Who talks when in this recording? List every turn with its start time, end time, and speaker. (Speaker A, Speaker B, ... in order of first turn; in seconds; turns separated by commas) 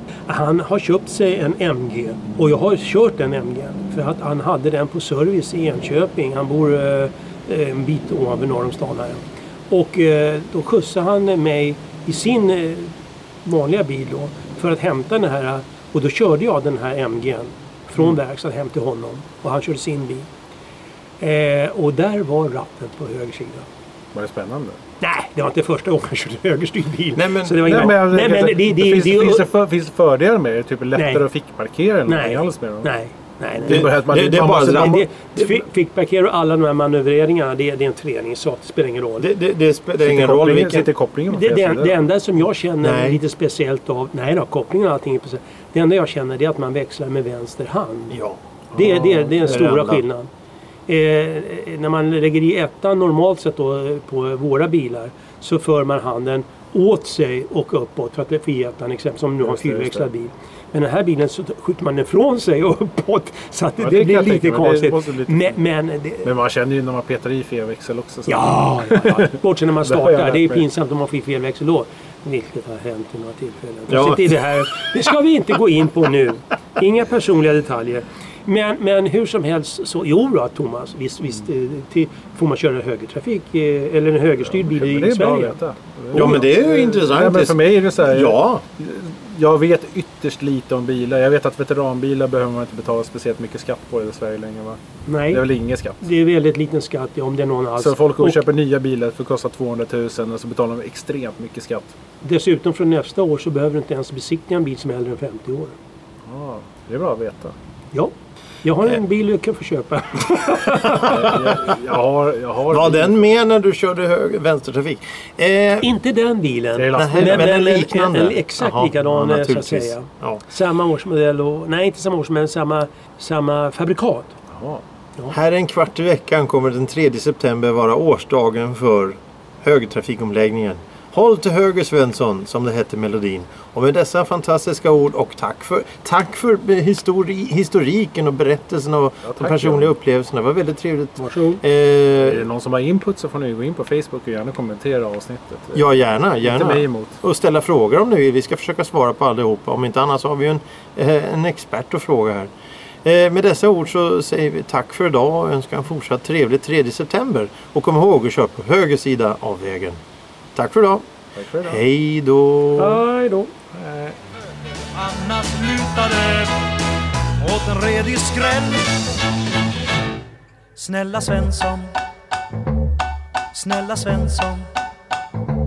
Speaker A: 0.3-12.9, Speaker A: 13.4-20.3, Speaker A: 21.2-23.7, Speaker B: 24.1-24.8, Speaker A: 25.0-29.4, Speaker C: 27.1-27.9, Speaker B: 27.6-32.9, Speaker A: 30.9-31.2, Speaker A: 32.1-39.3, Speaker B: 33.6-35.1, Speaker C: 33.6-35.5, Speaker C: 39.2-40.9, Speaker B: 40.0-42.0, Speaker A: 41.3-48.2, Speaker C: 42.8-43.2, Speaker C: 48.1-48.4, Speaker A: 48.7-50.3, Speaker B: 48.8-49.6, Speaker C: 49.4-50.0, Speaker A: 50.9-66.3, Speaker B: 59.4-60.1, Speaker B: 63.8-65.6, Speaker B: 66.2-70.6, Speaker A: 68.3-85.6, Speaker C: 73.9-74.4, Speaker B: 84.4-94.8, Speaker C: 86.1-88.6, Speaker A: 86.1-86.4, Speaker A: 95.1-95.4, Speaker B: 95.3-96.1, Speaker A: 96.0-98.4, Speaker B: 97.8-102.0, Speaker A: 102.2-105.8, Speaker B: 106.3-107.5, Speaker A: 107.9-111.5, Speaker C: 110.8-111.3, Speaker B: 111.1-113.2, Speaker C: 112.7-115.9, Speaker A: 115.8-124.3, Speaker B: 116.8-117.5, Speaker C: 116.9-120.4, Speaker B: 124.5-124.8, Speaker C: 125.3-142.5, Speaker B: 139.3-139.9, Speaker A: 141.2-141.6, Speaker B: 142.1-147.2, Speaker C: 145.8-152.5, Speaker C: 153.0-160.0, Speaker C: 160.6-161.1, Speaker B: 161.3-161.8, Speaker C: 161.6-163.0, Speaker A: 162.8-163.5, Speaker B: 163.8-164.1, Speaker D: 164.9-166.6, Speaker D: 167.4-168.9, Speaker D: 170.8-171.9, Speaker D: 173.5-174.7